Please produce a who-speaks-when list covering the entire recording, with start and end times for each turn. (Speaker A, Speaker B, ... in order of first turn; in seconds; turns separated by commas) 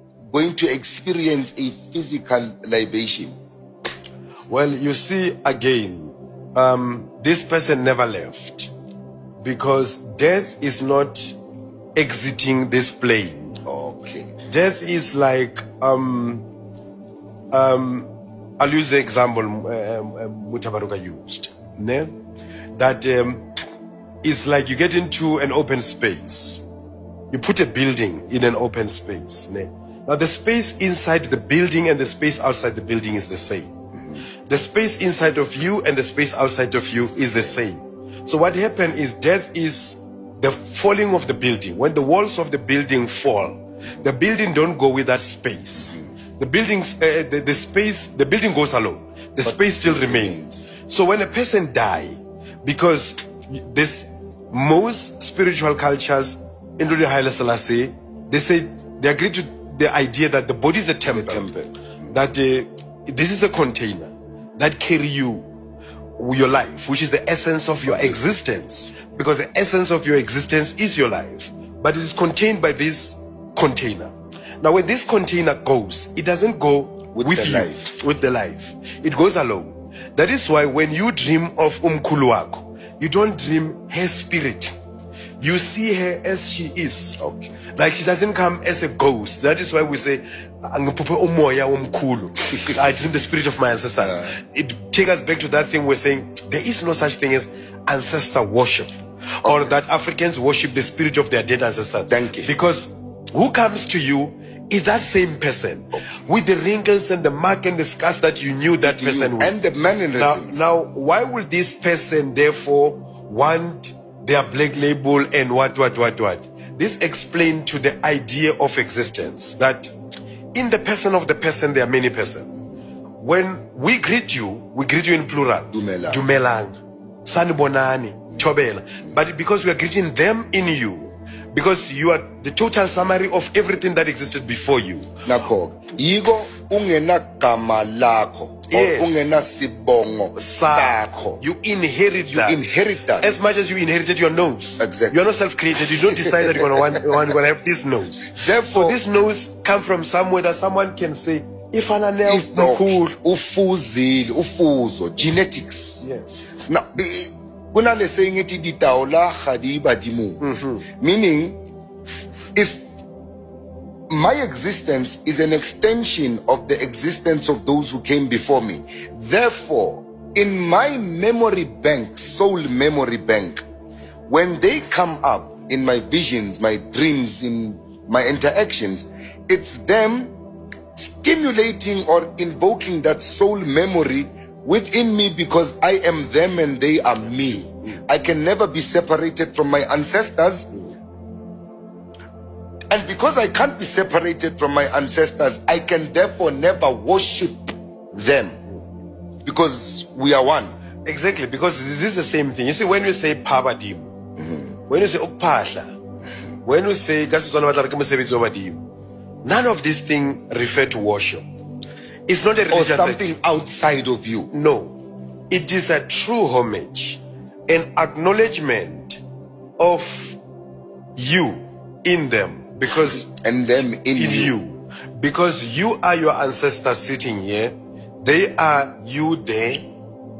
Speaker A: 0.3-3.4, Speaker B: 4.5-8.7, Speaker B: 9.4-11.4, Speaker B: 11.9-13.6, Speaker A: 13.6-14.3, Speaker B: 14.5-16.4, Speaker B: 17.5-22.1, Speaker B: 22.8-23.4, Speaker B: 24.2-26.6, Speaker B: 27.3-33.7, Speaker A: 34.0-34.2, Speaker B: 34.5-61.6, Speaker A: 37.1-37.5, Speaker A: 49.4-50.7, Speaker A: 61.1-61.7, Speaker B: 62.1-65.5, Speaker B: 66.2-84.7, Speaker A: 67.8-68.2, Speaker A: 77.1-78.0, Speaker B: 85.4-87.2, Speaker A: 87.2-87.5, Speaker B: 87.7-109.5, Speaker A: 99.4-99.8, Speaker A: 102.1-102.5, Speaker A: 108.8-110.6, Speaker B: 110.2-119.9, Speaker B: 120.5-122.5, Speaker B: 123.2-135.2, Speaker A: 125.7-126.2, Speaker A: 135.2-141.4, Speaker B: 138.7-139.3, Speaker B: 140.3-142.6, Speaker A: 142.2-143.4, Speaker B: 143.2-153.1, Speaker A: 144.8-145.2, Speaker A: 146.1-147.1, Speaker A: 148.3-149.0, Speaker A: 152.2-156.1, Speaker B: 156.0-156.5, Speaker A: 156.6-160.5, Speaker B: 160.4-160.8, Speaker A: 161.0-161.6, Speaker A: 162.5-162.8, Speaker A: 164.1-173.6, Speaker A: 174.3-180.3, Speaker A: 180.9-190.7, Speaker A: 192.9-198.6, Speaker A: 199.4-200.8, Speaker B: 201.0-204.1, Speaker A: 204.4-204.7, Speaker B: 204.9-205.9, Speaker B: 206.6-208.8, Speaker B: 209.4-211.4, Speaker B: 212.3-213.3, Speaker A: 212.7-214.5, Speaker B: 214.5-215.0, Speaker B: 215.5-219.2, Speaker B: 219.8-220.4, Speaker B: 221.2-223.3, Speaker A: 223.1-224.6, Speaker B: 224.1-229.9